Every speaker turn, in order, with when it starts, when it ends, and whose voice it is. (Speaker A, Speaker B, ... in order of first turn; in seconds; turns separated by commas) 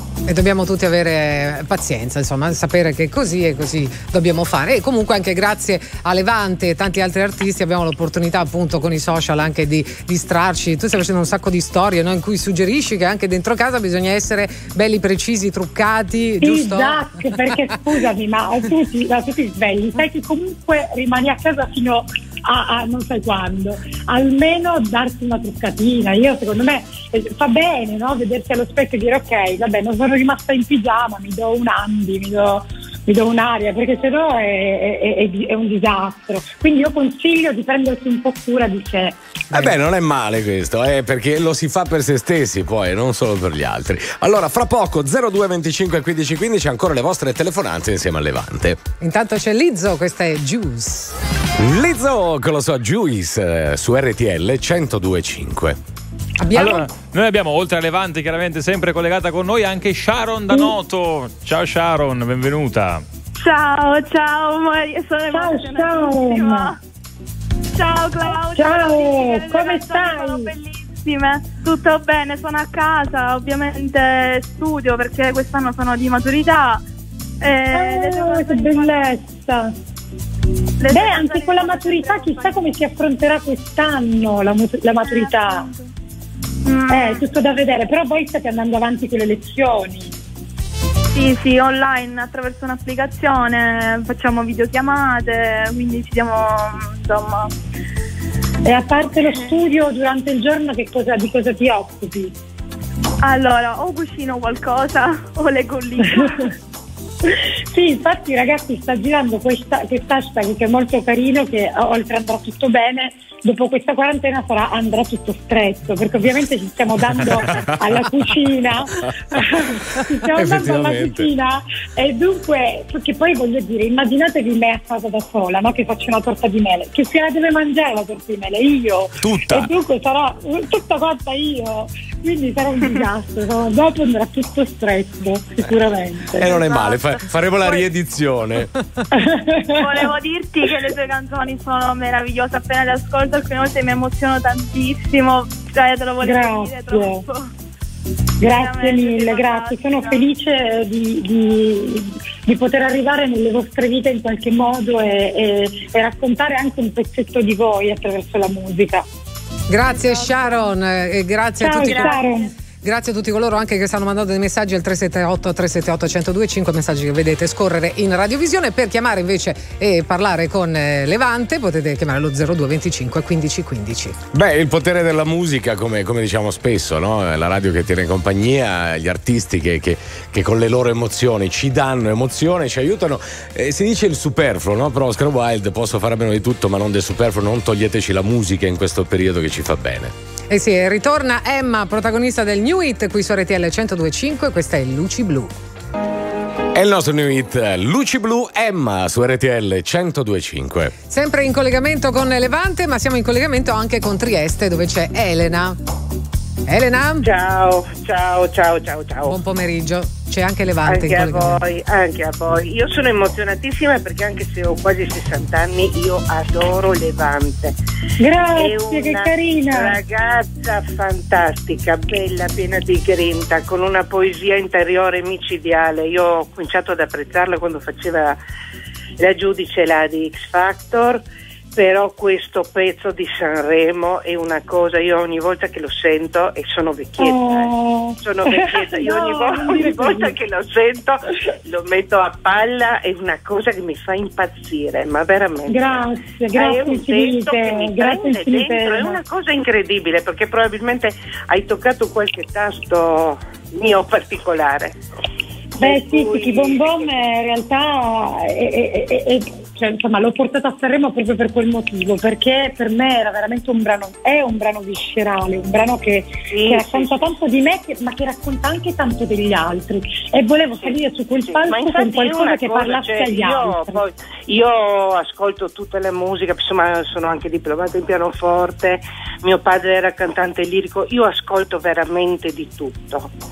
Speaker A: 0.2-17.1, Speaker B: 16.4-39.2, Speaker C: 39.5-48.8, Speaker A: 49.0-51.1, Speaker C: 51.6-55.8, Speaker A: 56.4-56.9, Speaker D: 56.5-63.0, Speaker B: 60.5-60.8, Speaker E: 63.4-66.8, Speaker B: 65.3-66.7, Speaker E: 67.7-76.8, Speaker B: 68.5-70.5, Speaker E: 77.4-79.1, Speaker B: 77.7-79.7, Speaker E: 80.8-82.6, Speaker B: 80.9-85.7, Speaker E: 85.0-85.8, Speaker E: 86.7-87.2, Speaker B: 86.9-90.1, Speaker E: 91.1-97.5, Speaker B: 98.6-102.3, Speaker E: 103.2-106.5, Speaker B: 107.7-136.6, Speaker C: 120.3-121.3, Speaker C: 129.2-129.7, Speaker C: 136.4-138.7, Speaker E: 136.6-137.0, Speaker B: 139.2-139.9, Speaker E: 139.7-147.4, Speaker B: 146.2-147.2, Speaker B: 148.4-159.0, Speaker E: 148.4-150.3, Speaker A: 159.7-162.2, Speaker B: 161.6-162.5, Speaker A: 162.8-174.2, Speaker C: 174.3-190.1, Speaker A: 190.5-195.5, Speaker C: 196.7-200.9, Speaker A: 201.1-205.8, Speaker A: 206.7-207.3, Speaker F: 207.2-209.4, Speaker A: 209.2-211.6, Speaker F: 210.8-217.8, Speaker B: 218.2-220.0, Speaker F: 218.6-228.4, Speaker F: 229.2-255.0, Speaker B: 237.2-240.3, Speaker B: 245.6-249.2, Speaker B: 255.8-274.0, Speaker F: 255.8-257.2, Speaker F: 266.5-267.3, Speaker F: 270.8-283.3